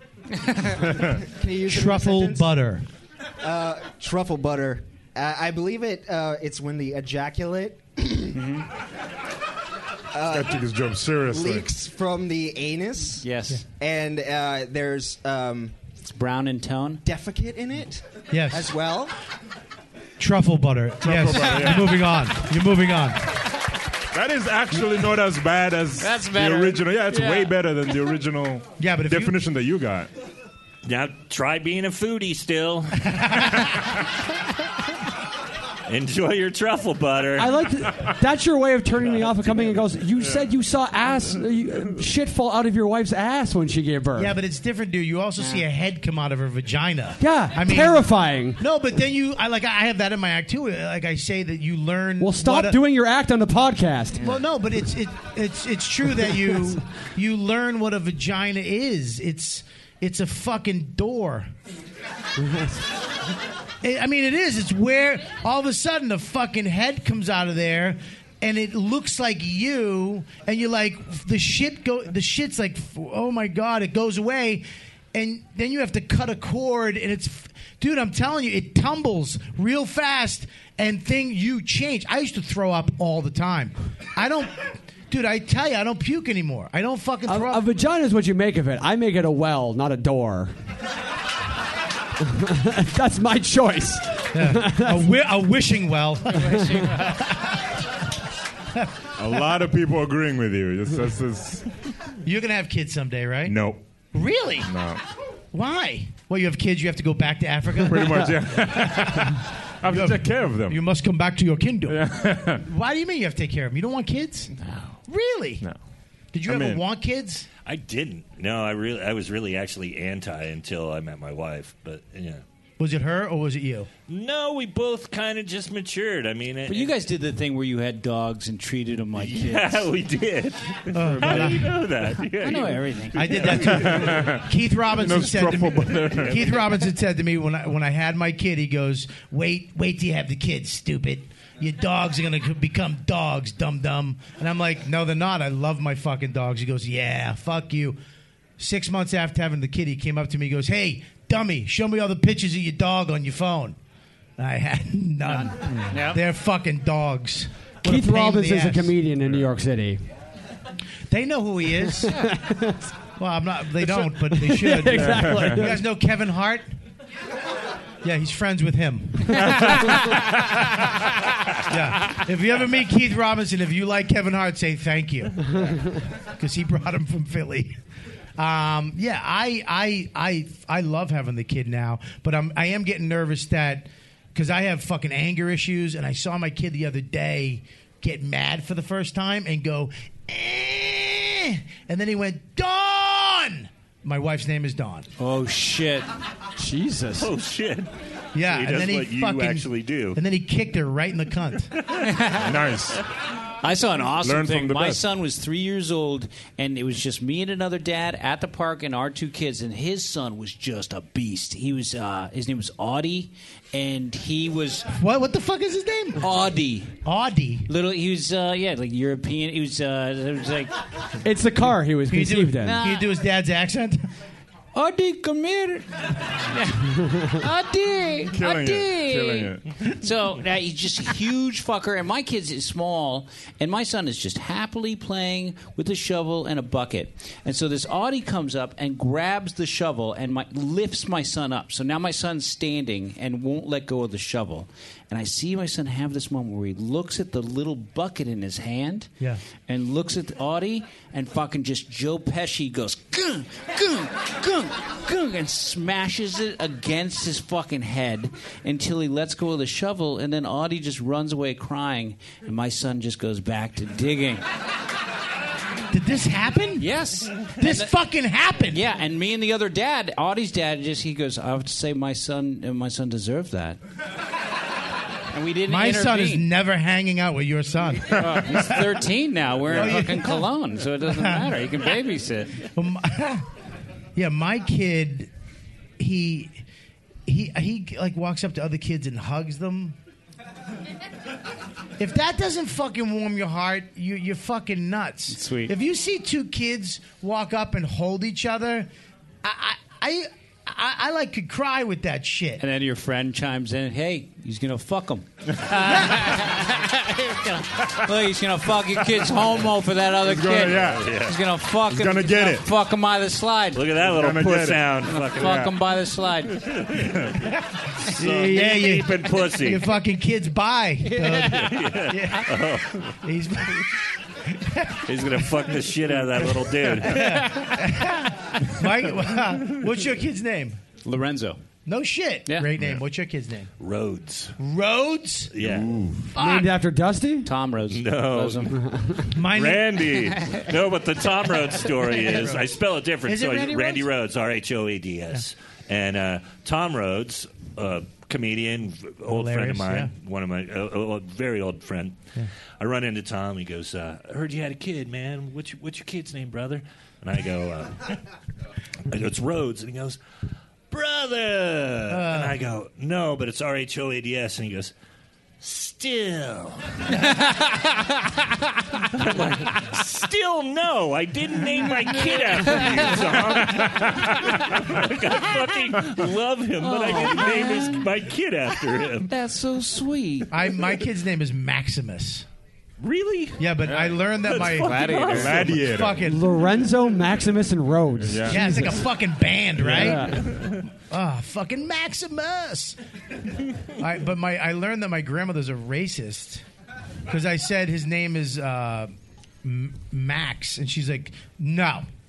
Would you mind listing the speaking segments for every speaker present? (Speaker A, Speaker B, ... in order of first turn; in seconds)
Speaker A: 0.4-0.7, 8.3-8.7, 13.2-13.6, 16.0-17.0, 26.0-27.5, 45.4-45.6, 96.3-97.2, 126.7-129.9, 132.4-133.5, 155.2-156.2, 195.2-196.1, 202.0-202.5, 203.6-214.9, 216.2-216.9, 217.7-220.7, 222.6-223.1, 224.7-249.1, 249.7-264.4, 266.8-267.9, 268.7-273.8, 275.3-276.5, 278.1-282.6, 295.3-295.7, 302.6-313.8, 315.1-316.6, 321.0-321.8, 327.1-327.7, 331.0-331.6, 337.4-338.8, 367.4-368.3, 372.8-373.1, 376.8-378.1, 379.3-380.5, 383.9-385.6
Speaker B: 1.0-2.5, 3.4-8.4, 10.1-10.7, 11.2-15.8, 17.0-19.1
Speaker C: 1.7-2.9, 18.3-18.7, 20.2-23.2, 28.8-29.4, 33.1-33.6, 44.1-52.8, 54.2-61.5, 63.8-87.7, 94.3-97.3, 102.2-103.6, 104.1-104.7, 105.5-114.5, 115.1-115.6, 116.3-117.5, 122.8-123.9, 130.9-131.8, 133.1-148.0, 148.6-153.8, 154.4-158.9, 161.1-162.2, 163.2-166.7, 168.0-169.8, 171.6-175.7, 176.3-177.8, 178.4-195.1, 198.3-201.7, 214.9-216.2, 217.0-217.7, 222.1-224.1, 265.9-266.9, 267.4-268.8, 275.6-278.8, 279.6-280.5, 281.0-281.5, 282.6-283.5, 284.1-285.3, 286.0-286.6, 287.2-290.0, 292.0-298.9, 299.4-302.6, 318.2-323.9, 324.5-325.7, 326.5-330.8, 331.9-333.7, 334.6-335.5, 336.3-336.7, 339.3-340.0, 342.2-342.7, 343.2-344.1, 349.3-350.1, 362.1-362.6, 380.5-382.4, 383.6-386.5, 388.4-393.0, 394.0-396.6, 397.3-402.1
Speaker D: 10.3-11.7, 21.0-22.2, 24.1-30.1, 99.2-101.7, 103.5-103.8, 104.7-105.0, 107.8-110.8, 111.9-112.6, 116.5-116.8, 133.6-134.5, 135.0-136.4, 159.2-159.5, 164.9-165.6, 169.4-169.8, 202.3-203.0, 204.2-205.0, 228.3-229.7, 310.2-311.1, 311.9-312.7, 314.0-315.7, 335.7-336.2, 385.3-386.2, 388.2-388.6
Speaker E: 30.9-33.8, 35.9-37.5, 117.6-122.4, 124.1-126.9, 129.2-134.1, 197.2-200.2, 310.8-311.4, 313.7-315.7, 316.5-317.3, 318.1-319.9, 321.6-323.1, 325.1-327.4, 333.8-334.6, 335.5-335.9, 337.9-338.7, 339.5-352.2, 352.8-358.2, 359.1-360.2, 360.9-364.9, 365.6-367.2, 369.1-379.3, 383.0-383.6, 384.5-386.0
Speaker F: 37.4-44.3, 47.2-48.6, 52.2-54.3, 62.4-62.8, 87.3-90.5, 92.2-95.1, 157.8-160.0, 162.0-162.9, 163.8-165.8, 196.6-197.3, 221.2-222.8, 336.4-337.5, 338.8-339.2, 386.2-389.1, 389.8-390.6